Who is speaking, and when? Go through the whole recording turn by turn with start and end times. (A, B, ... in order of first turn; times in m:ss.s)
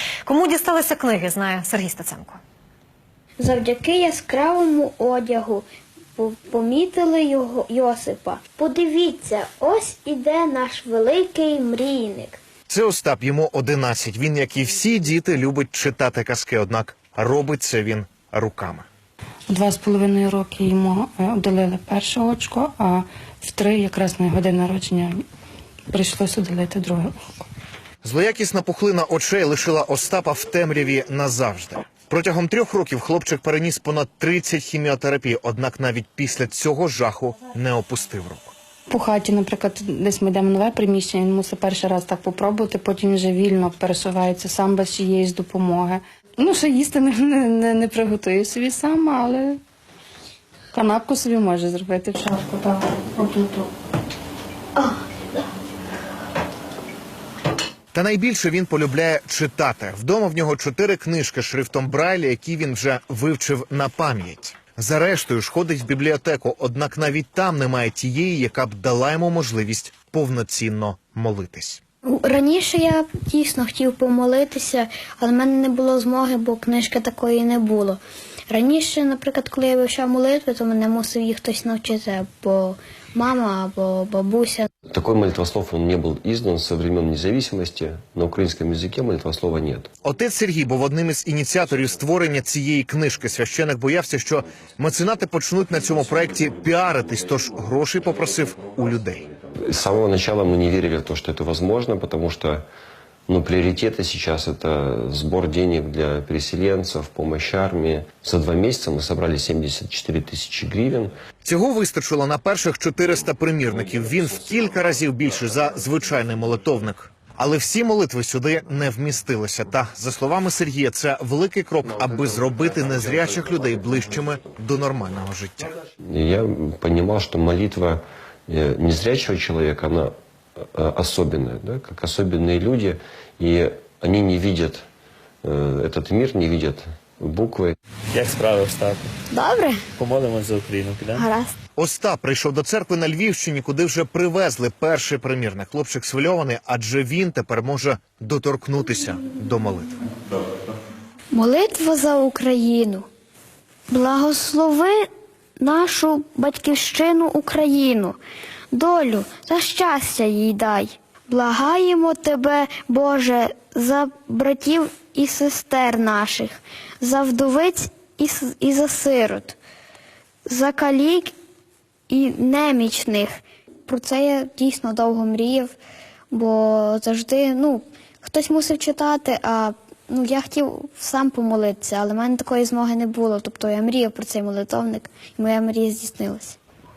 0:00.2-0:02.4 A
0:03.4-0:05.6 B
0:06.2-0:12.4 B
0:12.7-0:18.8 C
0:19.5-0:25.2 D
0:25.9-0:27.2 D
0:28.0-0:38.5 C
0:38.9-0:49.6 D
0:50.7-0:53.7 D
0:57.9-1:11.8 C
1:12.1-1:24.7 B
1:24.9-1:29.9 E
1:30.0-1:39.3 C
1:39.5-1:42.7 E
1:43.3-1:51.1 E
1:51.4-2:05.8 C
2:06.0-2:10.1 E
2:10.7-2:14.8 E
2:15.4-2:17.8 E
2:18.1-2:19.1 F
2:19.3-2:19.8 B
2:20.0-2:21.2 F
2:21.1-2:21.5 B
2:21.8-2:30.0 C
2:31.3-2:33.0 B
2:33.9-2:35.0 B
2:35.6-2:38.2 B
2:38.7-2:49.6 B
2:50.5-2:51.3 B
2:52.1-2:55.8 B
2:56.3-3:06.6 B